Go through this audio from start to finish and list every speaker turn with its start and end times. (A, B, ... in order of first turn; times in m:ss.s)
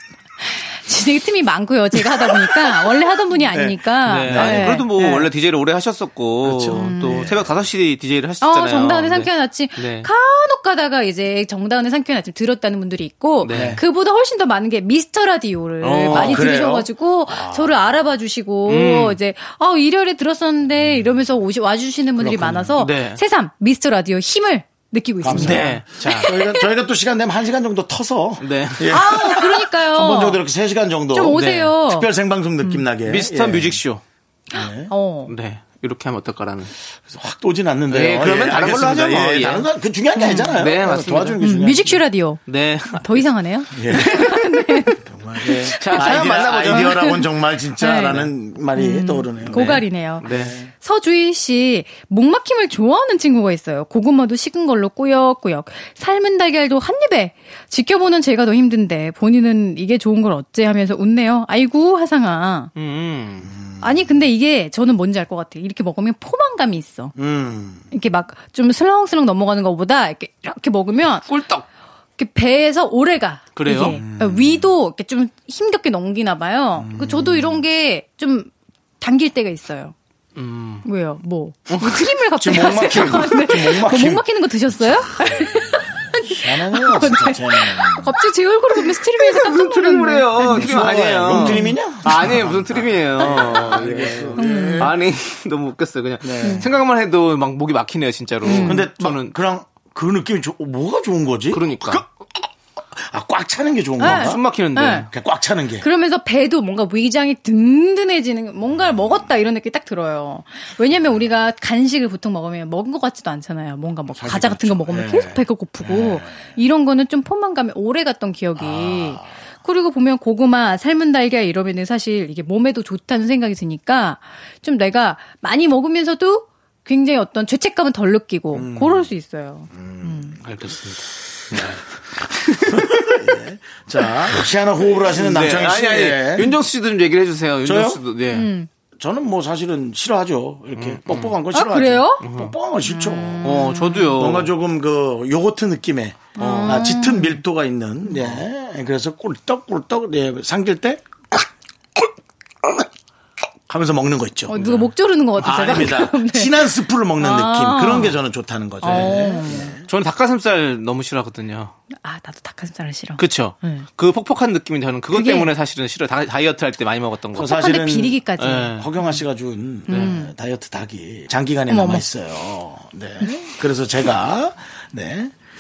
0:00.6-0:05.3 A
0:02.0-0:02.6 B
0:03.5-0:04.8 B
0:04.0-0:10.1 C
0:06.4-0:07.5 B
0:06.8-0:07.2 A
0:08.4-0:26.6 A
0:13.4-0:13.8 C
0:13.5-0:13.8 B
0:15.8-0:16.4 C
0:16.1-0:17.8 B
0:18.6-0:19.2 C
0:22.2-0:22.8 B
0:22.8-0:23.2 C
0:25.2-0:33.8 B
0:25.3-0:26.3 C
0:28.4-0:29.0 C
0:28.9-0:30.4 A
0:31.1-0:32.1 A
0:31.3-0:31.7 C
0:33.0-0:34.0 C
0:34.5-0:34.9 B
0:34.5-0:35.3 A
0:35.3-0:36.7 C
0:37.1-0:42.0 B
0:37.9-0:39.7 C
0:40.2-0:40.5 A
0:40.3-0:41.4 C
0:41.4-0:42.4 A
0:42.5-0:43.3 C
0:42.9-0:47.2 A
0:43.7-0:44.4 B
0:43.9-0:44.4 C
0:45.0-0:50.7 B
0:45.6-0:47.1 C
0:47.8-1:02.7 A
0:49.5-0:50.6 C
1:02.8-1:03.5 C
1:03.4-1:04.0 B
1:03.8-1:07.1 A
1:07.2-1:07.8 B
1:07.9-1:11.3 A
1:11.2-1:11.6 C
1:12.2-1:19.9 A
1:13.6-1:14.0 C
1:13.9-1:14.7 B
1:16.8-1:17.6 B
1:20.4-1:20.8 C
1:20.8-1:31.7 A
1:21.7-1:22.0 C
1:22.4-1:24.2 B
1:26.1-1:28.1 B
1:29.2-1:39.3 C
1:30.4-1:34.9 B
1:33.4-1:33.7 A
1:34.4-1:34.9 A
1:36.2-1:36.7 B
1:38.4-1:38.8 A
1:38.6-1:44.4 B
1:41.5-1:42.0 C
1:44.0-1:45.1 A
1:44.0-1:45.1 C
1:45.0-1:45.8 B
1:45.8-2:10.4 A
1:48.7-1:49.2 B
1:54.1-1:56.5 B
1:58.6-1:59.3 B
2:08.5-2:09.1 B
2:09.7-2:10.5 B
2:10.4-2:13.2 C
2:12.6-2:16.5 B
2:15.1-2:18.5 C
2:17.6-2:18.0 B
2:18.3-2:18.7 A
2:19.0-2:31.5 B
2:20.8-2:21.3 C
2:21.5-2:22.2 A
2:22.2-2:22.5 C
2:22.8-2:24.1 A
2:23.4-2:24.5 C
2:26.4-2:27.4 A
2:26.4-2:26.9 C
2:33.7-2:34.6 B
2:34.5-2:38.2 A
2:34.6-2:34.9 C
2:35.4-2:39.8 B
2:38.8-2:39.7 A
2:38.8-2:41.7 C
2:41.9-2:43.8 A
2:43.2-2:47.5 C
2:45.1-2:45.5 A
2:47.3-2:48.8 A
2:47.3-2:55.3 B
2:48.4-2:48.9 C
2:49.9-2:50.3 A
2:51.7-2:52.0 A